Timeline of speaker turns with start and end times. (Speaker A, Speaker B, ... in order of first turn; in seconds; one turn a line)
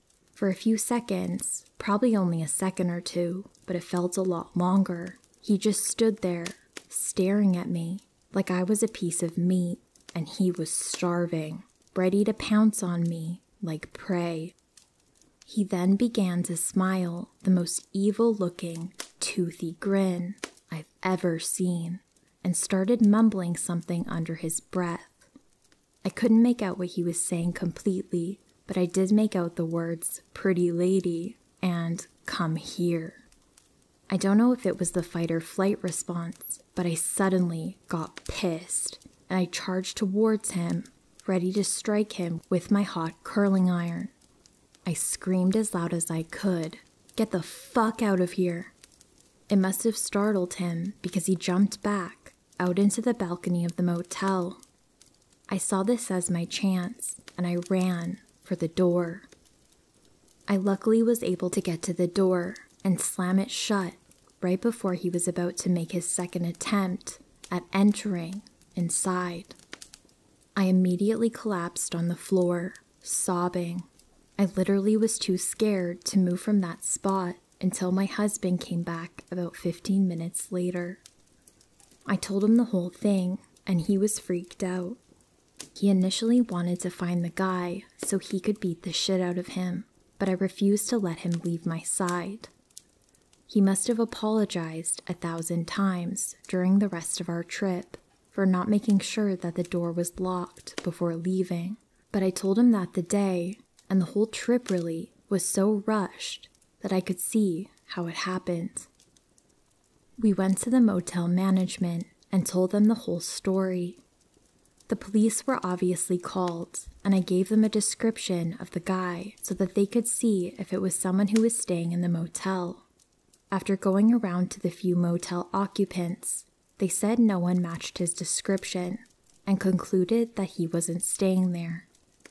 Speaker A: 0.3-14.5
Speaker A: 15.4-25.3
Speaker A: 26.0-33.2
Speaker A: 34.1-44.1
Speaker A: 44.8-48.7
Speaker A: 49.5-54.6
Speaker A: 55.5-59.3
Speaker A: 60.5-69.6
Speaker A: 70.5-73.9
Speaker A: 74.4-81.0
Speaker A: 82.0-85.0
Speaker A: 85.7-92.5
Speaker A: 93.5-108.9
Speaker A: 110.2-114.0
Speaker A: 114.9-122.8
Speaker A: 123.5-131.9